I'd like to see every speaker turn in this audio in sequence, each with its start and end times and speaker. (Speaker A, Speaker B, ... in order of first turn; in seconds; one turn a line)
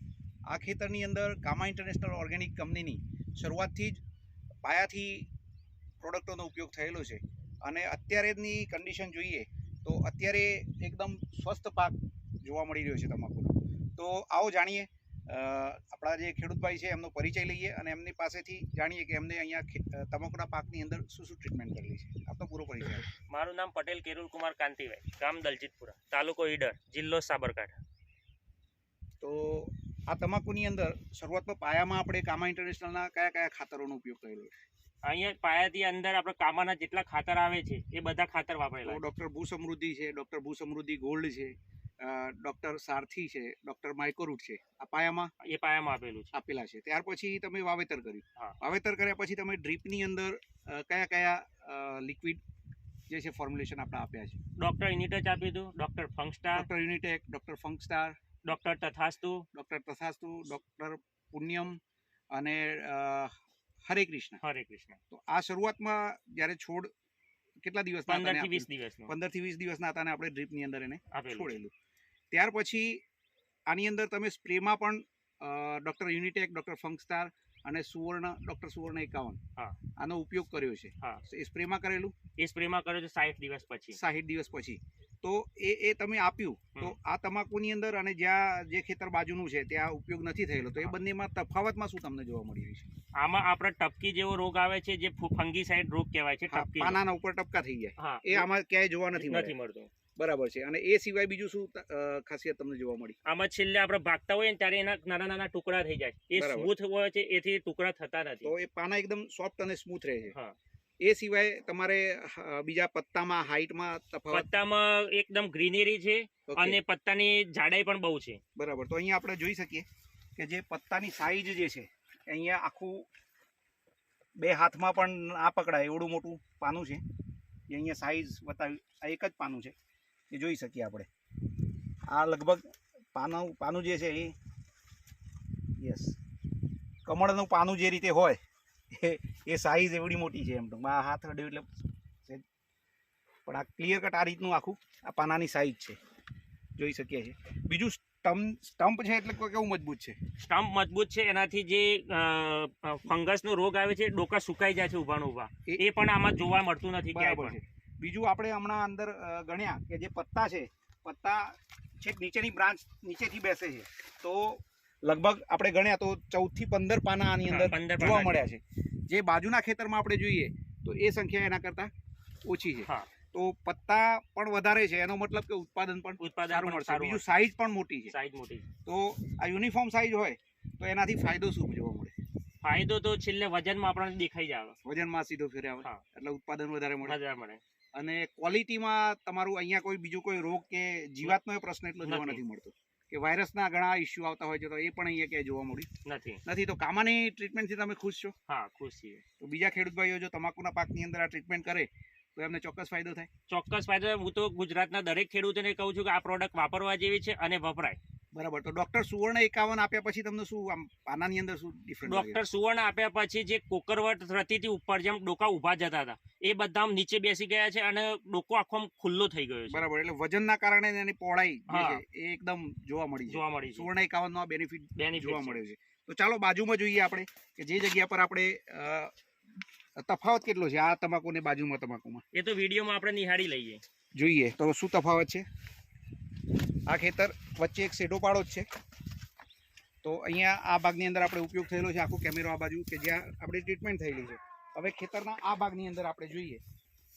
Speaker A: 0.5-4.0
Speaker A: 4.6-5.3
Speaker A: 6.0-23.1
Speaker B: 23.2-27.8
Speaker A: 29.2-34.5
Speaker B: 35.0-39.0
Speaker A: 38.8-45.3
Speaker B: 45.4-46.3
Speaker A: 46.3-52.4
Speaker A: 53.1-54.4
Speaker B: 54.6-56.7
Speaker A: 56.5-58.1
Speaker B: 58.5-59.5
Speaker A: 59.5-61.8
Speaker A: 62.3-63.3
Speaker A: 63.9-64.4
Speaker B: 64.4-65.0
Speaker A: 65.1-66.9
Speaker A: 67.6-71.7
Speaker B: 68.1-69.1
Speaker B: 71.1-71.6
Speaker A: 72.3-73.0
Speaker A: 73.7-79.4
Speaker A: 80.0-82.2
Speaker B: 82.4-84.0
Speaker A: 83.9-92.9
Speaker B: 93.2-97.0
Speaker A: 96.5-99.5
Speaker B: 98.0-98.5
Speaker B: 99.1-99.9
Speaker A: 100.2-103.2
Speaker B: 103.3-108.5
Speaker A: 106.3-106.7
Speaker A: 108.4-110.3
Speaker A: 111.0-114.5
Speaker B: 114.3-118.4
Speaker A: 116.5-116.8
Speaker A: 118.6-119.9
Speaker A: 120.4-123.1
Speaker A: 124.4-127.0
Speaker A: 127.7-129.7
Speaker A: 130.3-131.1
Speaker A: 132.1-134.3
Speaker A: 135.8-136.2
Speaker A: 137.1-138.4
Speaker A: 138.9-141.7
Speaker A: 143.5-146.0
Speaker A: 146.8-150.2
Speaker B: 150.4-157.6
Speaker A: 157.1-171.9
Speaker B: 167.5-168.5
Speaker A: 172.4-178.1
Speaker B: 172.9-173.1
Speaker B: 176.2-177.4
Speaker B: 178.1-178.7
Speaker A: 178.9-182.1
Speaker B: 182.6-184.8
Speaker A: 184.8-187.2
Speaker B: 187.0-187.6
Speaker A: 187.9-195.9
Speaker B: 192.0-192.4
Speaker B: 196.1-196.4
Speaker A: 196.5-198.3
Speaker B: 198.5-199.2
Speaker A: 199.4-203.3
Speaker B: 203.5-208.0
Speaker A: 208.3-212.4
Speaker B: 212.1-219.8
Speaker A: 219.7-229.1
Speaker B: 221.7-222.0
Speaker B: 223.3-223.9
Speaker B: 224.9-225.6
Speaker A: 230.0-232.2
Speaker B: 232.3-233.8
Speaker A: 234.2-235.4
Speaker A: 236.9-238.7
Speaker A: 240.0-246.6